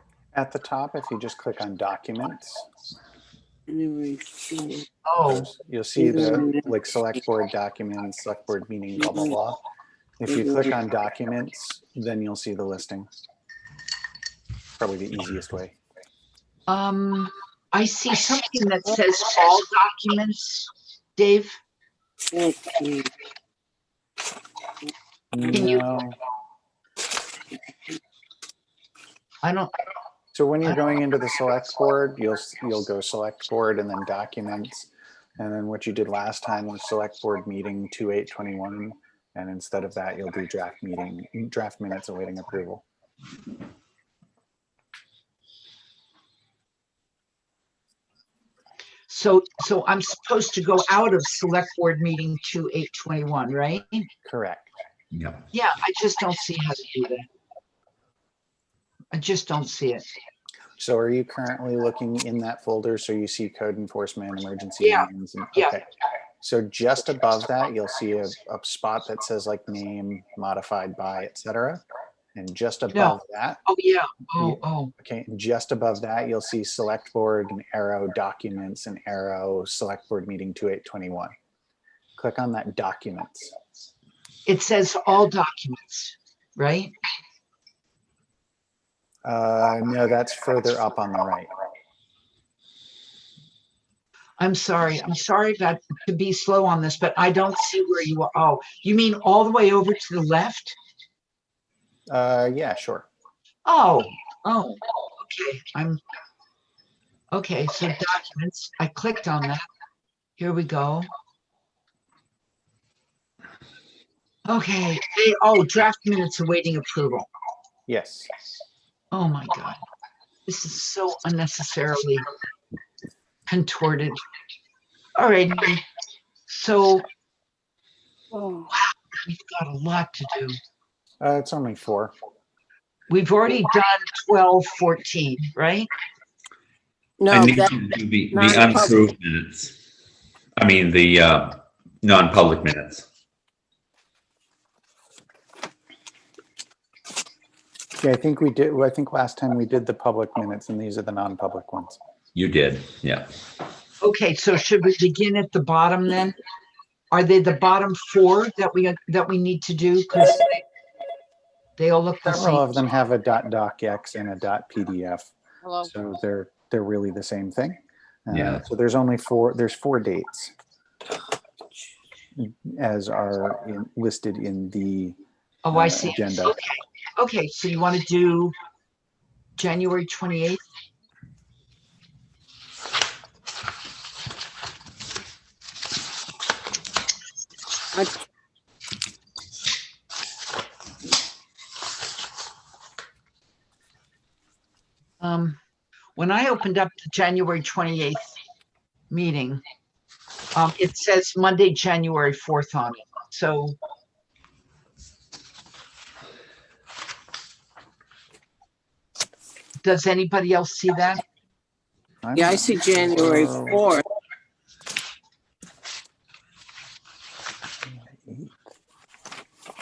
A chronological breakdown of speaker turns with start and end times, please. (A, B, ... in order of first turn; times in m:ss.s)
0:00.3-0:02.7 A
0:03.7-0:04.9 B
0:05.1-0:05.5 C
0:05.3-0:09.6 A
0:06.0-0:06.7 B
0:09.0-0:09.4 B
0:10.2-0:13.1 A
0:10.3-0:10.7 B
0:14.8-0:15.8 A
0:16.7-0:21.6 C
0:22.3-0:23.1 B
0:25.3-0:26.2 A
0:25.5-0:25.8 C
0:29.4-0:29.7 C
0:30.3-0:42.8 A
0:49.1-0:54.1 C
0:54.2-0:54.7 A
0:55.1-0:55.4 D
0:55.5-0:57.3 C
0:59.1-1:00.1 C
1:00.8-1:05.8 A
1:04.8-1:05.8 C
1:06.4-1:13.6 A
1:12.9-1:14.9 C
1:14.4-1:21.4 A
1:22.2-1:23.5 A
1:24.5-1:26.9 C
1:29.2-1:31.5 A
1:34.4-1:40.8 C
1:42.1-1:43.1 A
1:43.6-1:46.0 C
1:47.3-1:49.7 C
1:50.4-1:51.1 C
1:54.5-1:57.3 C
1:57.9-1:58.3 A
1:59.1-1:59.8 C
2:00.5-2:02.3 C
2:03.5-2:04.2 C
2:05.2-2:05.8 C
2:06.5-2:07.1 C
2:08.3-2:08.7 B
2:09.1-2:10.6 C
2:11.2-2:12.1 A
2:13.1-2:15.9 C
2:17.2-2:19.1 B
2:17.3-2:19.8 D
2:20.6-2:23.1 D
2:28.0-2:32.0 A
2:32.4-2:33.3 D
2:34.0-2:36.4 C
2:37.1-2:40.6 C
2:41.8-2:42.7 C
2:42.3-2:45.3 A
2:45.6-2:45.9 B
2:45.8-2:50.5 A
2:48.3-2:48.6 D
2:52.4-2:55.2 A
2:55.6-2:58.5 C
2:55.7-2:56.6 A
2:59.6-3:00.6 C
3:15.2-3:15.6 C
3:16.2-3:18.3 C
3:19.1-3:19.6 C
3:20.5-3:23.8 C
3:29.8-3:31.2 C
3:32.2-3:33.8 A
3:32.4-3:34.0 B
3:37.9-3:38.6 A